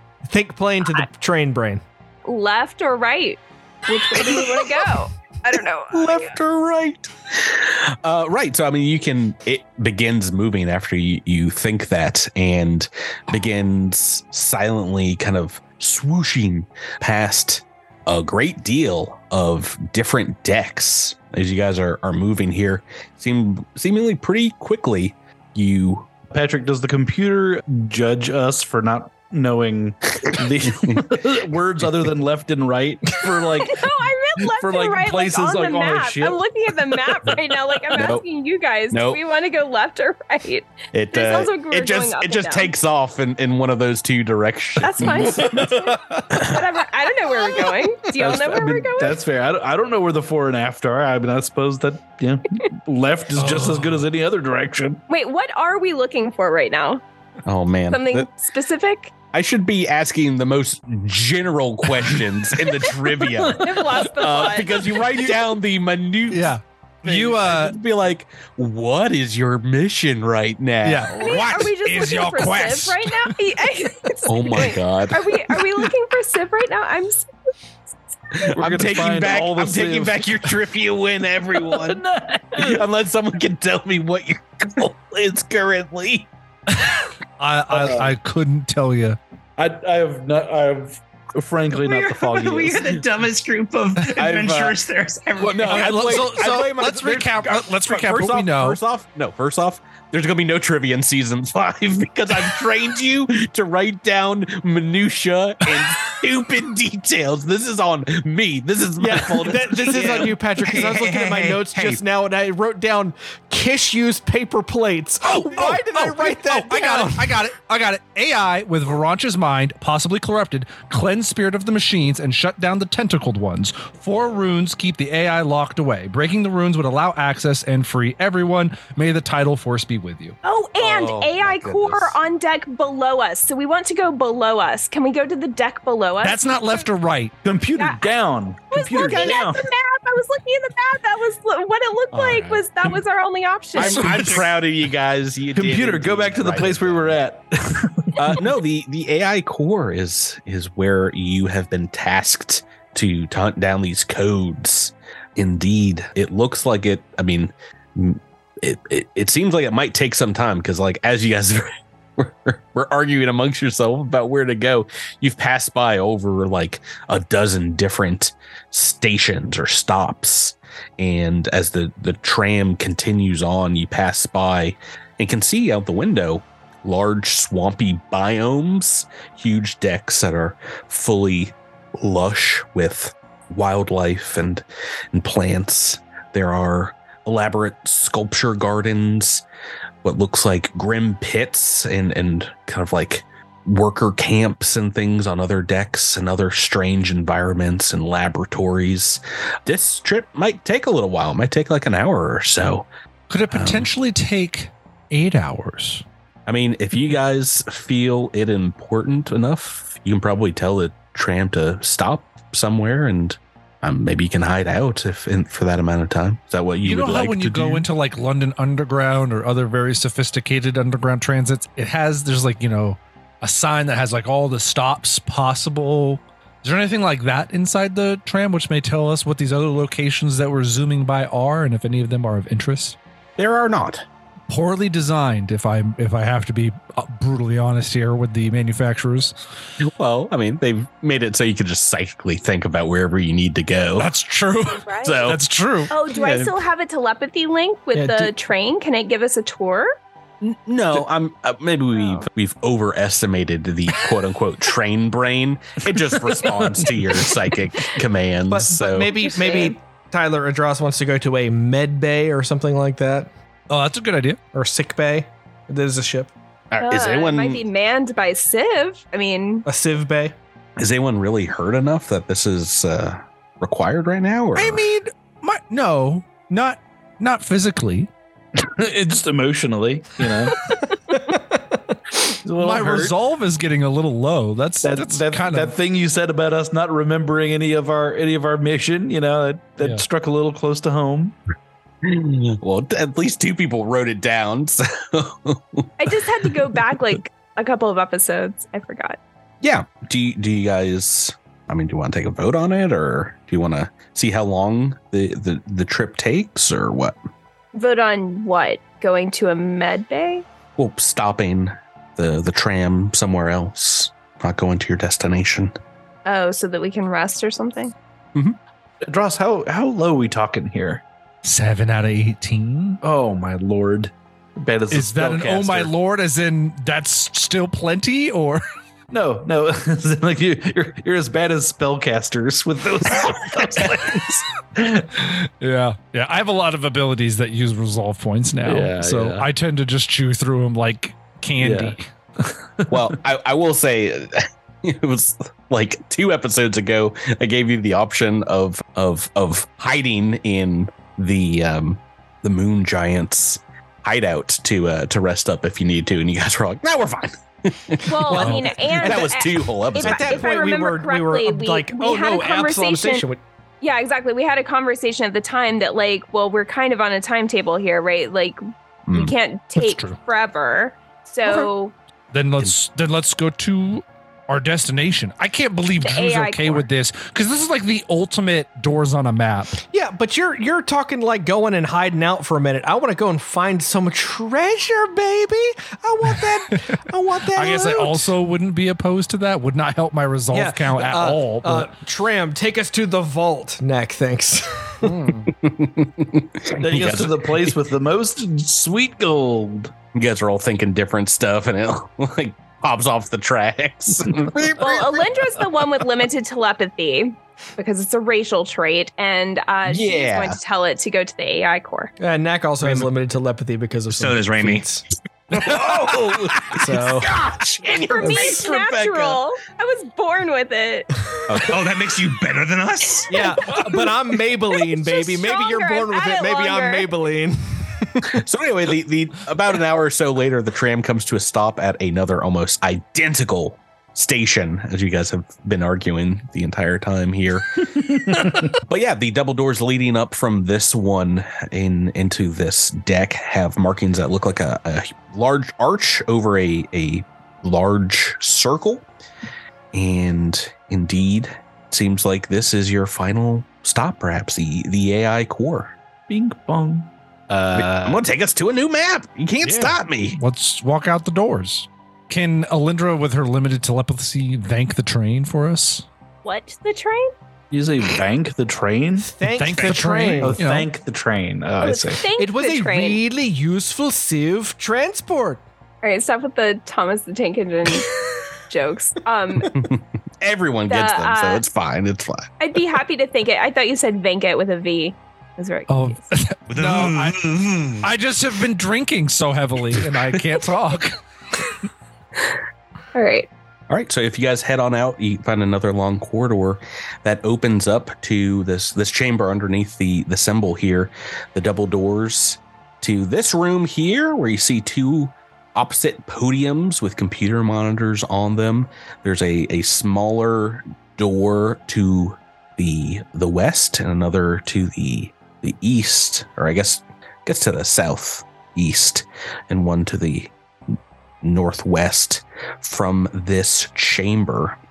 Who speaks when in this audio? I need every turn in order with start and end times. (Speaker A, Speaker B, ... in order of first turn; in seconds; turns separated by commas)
Speaker A: 0.3-1.8, Speaker B: 2.3-6.3, Speaker C: 4.2-4.7, Speaker C: 5.9-26.1, Speaker D: 26.3-36.4, Speaker C: 30.3-32.1, Speaker B: 33.6-42.7, Speaker C: 38.0-38.2, Speaker C: 38.9-39.2, Speaker C: 40.9-45.7, Speaker B: 44.8-49.2, Speaker E: 45.4-46.2, Speaker D: 48.2-55.0, Speaker E: 53.4-54.1, Speaker B: 55.1-57.0, Speaker C: 57.5-58.3, Speaker B: 57.9-59.1, Speaker C: 59.3-71.6, Speaker D: 63.4-63.9, Speaker B: 63.6-65.0, Speaker E: 66.3-67.8, Speaker E: 70.8-73.4, Speaker B: 71.2-77.3, Speaker C: 74.3-75.9, Speaker C: 78.4-82.0, Speaker D: 78.6-80.5, Speaker D: 81.6-82.8, Speaker C: 82.6-86.3, Speaker E: 87.4-89.2, Speaker D: 89.6-93.0, Speaker F: 91.8-96.5, Speaker C: 94.2-94.8, Speaker C: 95.4-111.9, Speaker E: 95.6-98.8, Speaker A: 109.0-117.2, Speaker C: 115.3-116.7, Speaker E: 115.5-130.4, Speaker B: 130.4-136.4, Speaker C: 130.9-132.2, Speaker E: 136.2-137.4, Speaker D: 137.4-139.6, Speaker B: 137.8-138.1, Speaker B: 138.7-144.2, Speaker C: 138.9-139.5, Speaker C: 143.8-147.2, Speaker E: 143.8-144.4, Speaker D: 145.6-148.4, Speaker C: 148.2-189.4, Speaker C: 190.0-202.9, Speaker E: 203.3-206.0, Speaker C: 203.5-203.9, Speaker C: 206.5-217.9, Speaker E: 216.8-233.0, Speaker C: 233.4-234.1, Speaker E: 234.5-239.4, Speaker C: 239.8-244.1, Speaker E: 244.0-245.9, Speaker B: 244.8-245.3, Speaker C: 245.0-245.4, Speaker B: 245.9-249.9, Speaker A: 247.9-248.3, Speaker C: 250.4-259.1, Speaker B: 251.9-252.3, Speaker D: 256.3-257.1, Speaker A: 258.5-263.3, Speaker B: 259.2-259.8, Speaker E: 263.7-264.4, Speaker A: 264.5-266.3, Speaker C: 266.7-267.6, Speaker B: 266.8-269.7, Speaker A: 269.7-270.4, Speaker C: 270.8-274.8, Speaker E: 274.6-278.1, Speaker D: 278.6-280.7, Speaker D: 282.3-283.1, Speaker E: 282.6-285.8, Speaker D: 284.8-291.4, Speaker E: 289.8-290.1, Speaker C: 292.0-296.5, Speaker B: 296.0-299.2, Speaker C: 299.6-307.2, Speaker B: 307.7-310.4, Speaker C: 310.8-315.7, Speaker B: 316.3-317.9, Speaker D: 319.0-321.0, Speaker E: 321.4-323.0, Speaker D: 323.0-325.9, Speaker E: 324.9-328.6, Speaker D: 329.1-335.1, Speaker C: 333.9-334.3, Speaker E: 335.1-342.1, Speaker D: 338.6-339.5, Speaker D: 341.6-343.1, Speaker C: 342.9-358.5, Speaker B: 358.1-363.2, Speaker E: 358.3-358.8, Speaker A: 358.4-358.9, Speaker C: 359.0-360.4, Speaker A: 360.0-363.4, Speaker B: 363.8-368.6, Speaker C: 369.1-369.3, Speaker B: 369.1-371.9, Speaker E: 369.8-370.2, Speaker E: 372.3-379.8, Speaker B: 376.0-376.9, Speaker A: 379.9-388.3, Speaker E: 386.3-391.9, Speaker A: 390.5-395.1, Speaker C: 395.0-397.8, Speaker D: 396.8-399.9, Speaker C: 400.1-405.8, Speaker B: 404.8-412.1, Speaker C: 409.9-410.6, Speaker A: 412.2-415.0, Speaker F: 414.1-414.9, Speaker C: 415.5-419.4, Speaker A: 416.7-417.3, Speaker B: 418.1-421.3, Speaker C: 421.5-422.4, Speaker F: 421.6-423.4, Speaker A: 423.3-428.3, Speaker B: 425.0-427.1, Speaker C: 428.3-437.9, Speaker D: 438.0-438.7, Speaker C: 438.7-449.1, Speaker C: 449.9-455.9, Speaker D: 456.3-458.2, Speaker C: 457.7-460.4, Speaker E: 459.6-466.1, Speaker B: 466.4-467.3, Speaker D: 467.7-469.3, Speaker A: 469.2-470.6, Speaker E: 469.6-470.9, Speaker D: 470.4-472.2, Speaker B: 471.8-473.2, Speaker A: 472.4-475.6, Speaker B: 476.0-479.9, Speaker C: 479.6-482.5, Speaker B: 480.9-481.6, Speaker B: 482.6-486.2, Speaker E: 485.9-487.5, Speaker F: 486.7-488.1, Speaker E: 488.0-491.2, Speaker B: 493.1-493.5, Speaker C: 493.9-524.8